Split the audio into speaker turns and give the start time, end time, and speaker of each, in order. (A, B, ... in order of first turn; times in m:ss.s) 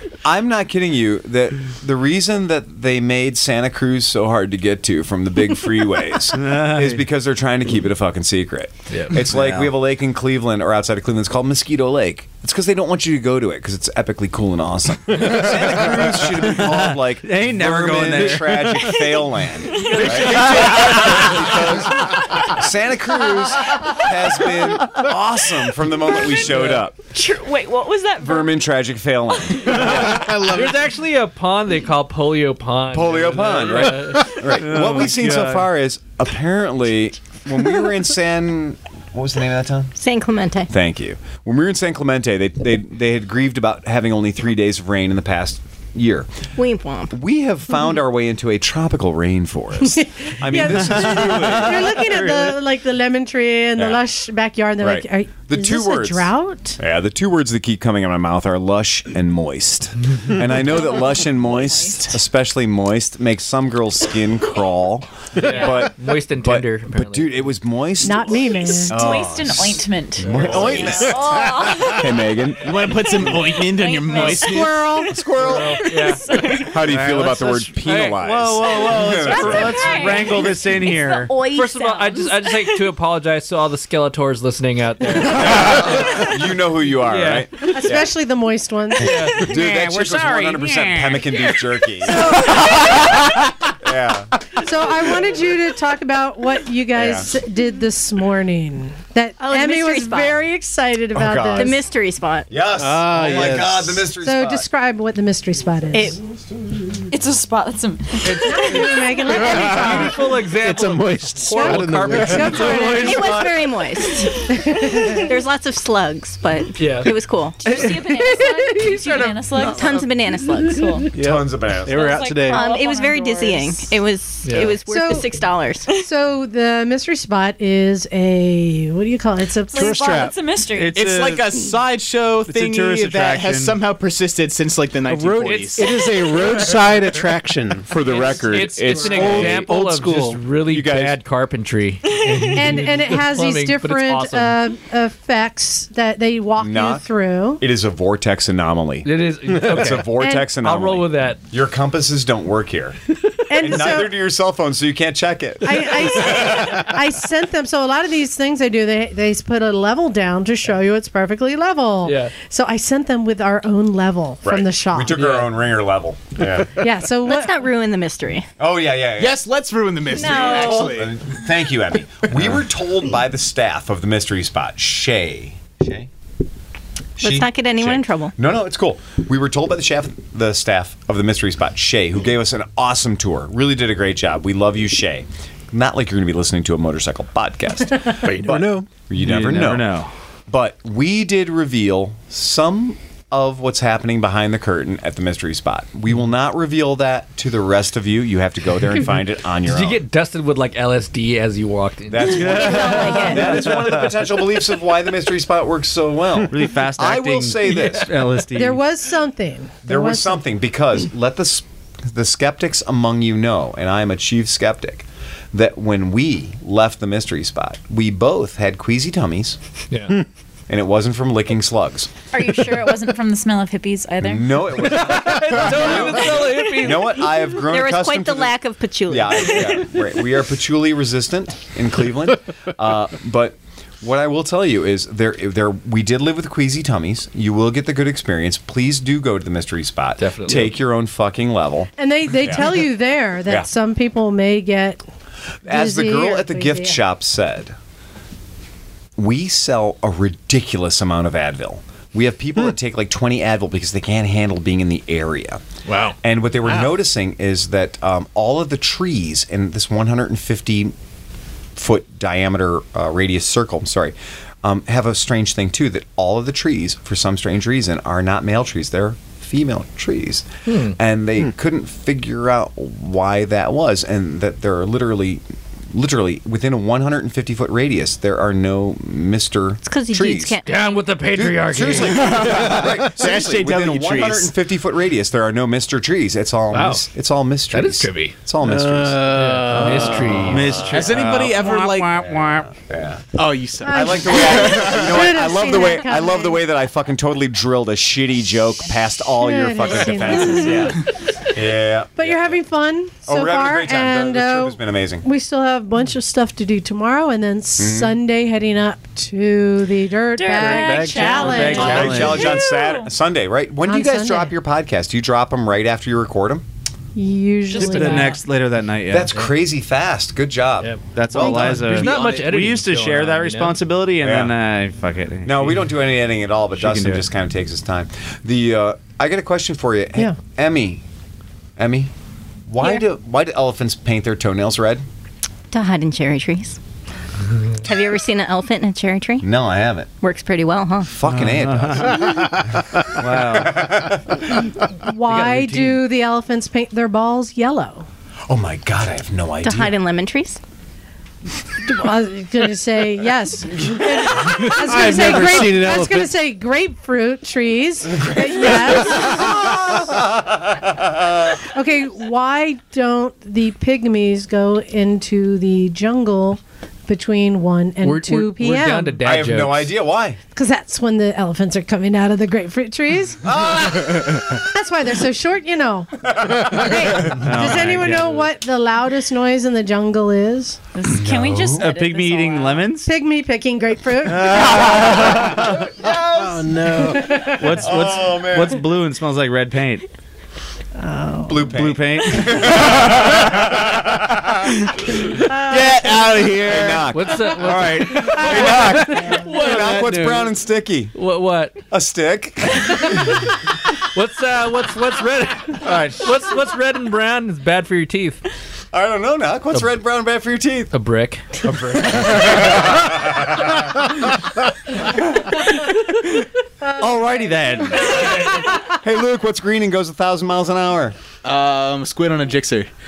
0:00.2-0:27.0 A
0:06.3-0:07.0 B
0:08.9-0:09.2 C
0:09.2-0:09.8 B
0:15.2-0:19.1 B
0:19.6-0:20.6 D
0:19.8-0:21.1 C
0:20.3-0:21.5 B
0:26.1-0:28.6 D
0:28.2-0:30.3 A
0:29.5-0:29.8 D
0:30.0-0:34.4 C
0:32.9-0:39.9 A
0:34.4-0:35.7 B
0:40.0-0:40.7 E
0:40.7-0:46.3 A
0:46.6-0:47.2 E
0:47.1-0:52.2 A
0:49.8-0:56.8 F
0:50.5-0:52.5 B
0:53.8-0:54.0 A
0:54.8-1:12.7 A
1:00.4-1:02.2 D
1:05.4-1:07.5 C
1:08.0-1:09.1 F
1:08.6-1:12.3 D
1:10.2-1:11.2 C
1:12.6-1:14.8 G
1:13.1-1:16.8 D
1:14.2-1:15.2 F
1:15.1-1:15.8 A
1:15.4-1:16.4 C
1:16.7-1:20.0 A
1:16.8-1:21.4 B
1:17.8-1:18.1 C
1:18.9-1:22.9 D
1:21.4-1:26.4 C
1:25.3-1:28.1 A
1:27.0-1:27.8 C
1:27.7-1:29.3 F
1:29.0-1:29.5 C
1:29.3-1:34.3 A
1:29.5-1:31.6 B
1:32.1-1:33.0 F
1:34.6-1:41.8 F
1:37.0-1:37.3 A
1:39.4-1:40.4 D
1:39.5-1:40.2 E
1:41.2-1:41.8 A
1:41.6-1:42.5 E
1:42.5-1:44.7 A
1:42.8-1:43.8 H
1:43.1-1:44.0 B
1:44.2-1:46.2 F
1:45.9-1:46.2 D
1:47.1-1:49.4 D
1:48.2-1:53.5 C
1:48.4-1:50.2 F
1:49.7-1:52.8 H
1:51.6-1:53.6 F
1:52.8-1:54.5 E
1:54.0-1:55.2 D
1:54.5-1:55.4 F
1:55.1-1:57.9 E
1:56.8-1:57.1 C
1:57.6-2:00.1 D
1:59.0-1:59.3 C
1:59.6-2:01.0 E
2:00.7-2:01.1 D
2:01.1-2:02.7 H
2:01.2-2:02.3 A
2:01.9-2:04.0 D
2:02.4-2:05.9 E
2:04.4-2:04.8 C
2:04.9-2:05.3 F
2:05.9-2:10.1 F
2:09.7-2:11.1 D
2:09.8-2:10.4 H
2:10.8-2:11.6 B
2:11.0-2:16.0 G
2:12.5-2:13.8 B
2:15.1-2:20.4 H
2:16.0-2:16.8 D
2:17.9-2:19.8 A
2:18.1-2:24.6 C
2:20.7-2:21.2 A
2:22.1-2:22.6 D
2:22.6-2:27.6 F
2:26.6-2:27.0 A
2:27.6-2:33.0 A
2:29.0-2:31.4 C
2:30.2-2:30.5 F
2:33.5-2:34.2 F
2:33.6-2:36.9 A
2:35.6-2:45.2 F
2:42.0-2:42.3 C
2:44.4-2:46.8 A
2:45.1-2:45.5 C
2:46.8-2:47.7 F
2:47.2-2:48.5 E
2:48.6-2:49.4 A
2:49.2-2:51.2 G
2:50.1-2:51.0 D
2:50.2-2:50.7 E
2:50.6-2:56.1 A
2:57.2-3:09.9 A
2:57.2-2:58.4 E
3:08.2-3:08.9 H
3:09.2-3:10.1 B
3:10.5-3:20.0 A
3:19.6-3:23.5 C
3:22.1-3:28.2 A
3:22.2-3:24.1 B
3:22.8-3:23.7 E
3:23.1-3:23.4 F
3:26.4-3:28.8 B
3:28.5-3:30.4 F
3:29.8-3:39.6 A
3:39.9-3:40.2 C
3:40.7-3:42.1 A
3:42.3-3:44.8 D
3:44.2-4:02.8 A
3:44.8-3:47.3 C
3:47.5-3:49.8 E
4:00.2-4:00.8 C
4:02.0-4:05.0 F
4:05.6-4:07.8 A
4:05.7-4:07.0 F
4:09.2-4:15.6 A
4:15.9-4:16.9 G
4:16.2-4:20.9 A
4:21.8-4:35.4 A
4:30.7-4:31.0 C
4:35.9-4:40.6 A
4:39.8-4:40.7 E
4:40.6-4:42.4 C
4:41.3-4:49.2 A
4:42.4-4:44.5 G
4:46.7-4:47.0 C
4:47.7-4:48.4 C
4:48.6-4:50.5 H
4:49.3-4:50.8 C
4:49.8-4:52.8 B
4:50.7-4:51.0 A
4:50.9-4:52.3 G
4:52.2-4:53.2 A
4:53.4-4:55.1 G
4:53.8-4:56.6 F
4:53.9-5:02.6 A
4:59.2-5:01.1 F
5:02.2-5:12.1 F
5:03.3-5:05.2 A
5:07.8-5:08.2 A
5:10.3-5:13.1 D
5:10.6-5:11.7 H
5:11.3-5:12.6 B
5:11.7-5:16.6 A
5:13.8-5:14.6 F
5:17.2-5:18.4 F
5:17.7-5:18.4 D
5:17.8-5:19.4 B
5:19.1-5:22.3 A
5:21.1-5:25.9 B
5:21.3-5:21.9 F
5:21.7-5:23.8 C
5:24.2-5:24.6 A
5:25.4-5:31.0 A
5:26.8-5:27.2 B
5:31.8-5:32.1 A
5:32.7-5:35.0 A
5:35.7-5:36.8 E
5:37.8-5:39.5 E
5:39.4-5:40.1 A
5:40.2-5:41.2 E
5:41.0-5:44.5 A
5:41.3-5:44.0 B
5:45.0-5:48.1 F
5:45.3-5:46.0 B
5:48.5-5:50.0 A
5:49.6-5:50.6 E
5:51.8-6:00.2 F
5:54.4-5:56.3 H
5:58.1-6:01.6 A
6:01.5-6:09.2 F
6:08.0-6:09.9 C
6:09.2-6:10.4 A
6:10.6-6:13.5 F
6:13.4-6:14.6 A
6:14.1-6:20.8 F
6:16.3-6:17.3 A
6:17.4-6:18.5 B
6:20.9-6:23.0 D
6:21.1-6:21.9 A
6:21.7-6:23.1 B
6:23.0-6:25.6 F
6:24.2-6:25.9 B
6:25.9-6:27.8 H
6:26.0-6:27.0 A
6:27.0-6:27.7 F
6:27.4-6:30.1 B
6:27.7-6:28.8 A
6:31.0-6:31.8 F
6:31.4-6:34.7 A
6:31.7-6:32.9 B
6:35.4-6:36.4 F
6:35.7-6:37.0 H
6:36.5-6:41.1 A
6:37.1-6:40.5 C
6:38.2-6:39.4 F
6:41.2-6:41.8 C
6:41.9-6:43.2 A
6:43.0-6:43.4 C
6:44.0-6:48.4 C
6:48.9-6:50.9 A
6:50.9-6:51.6 C
6:51.6-6:53.8 A
6:56.9-6:58.8 F
6:57.0-6:58.2 B
6:58.8-7:01.2 A
7:01.4-7:02.9 G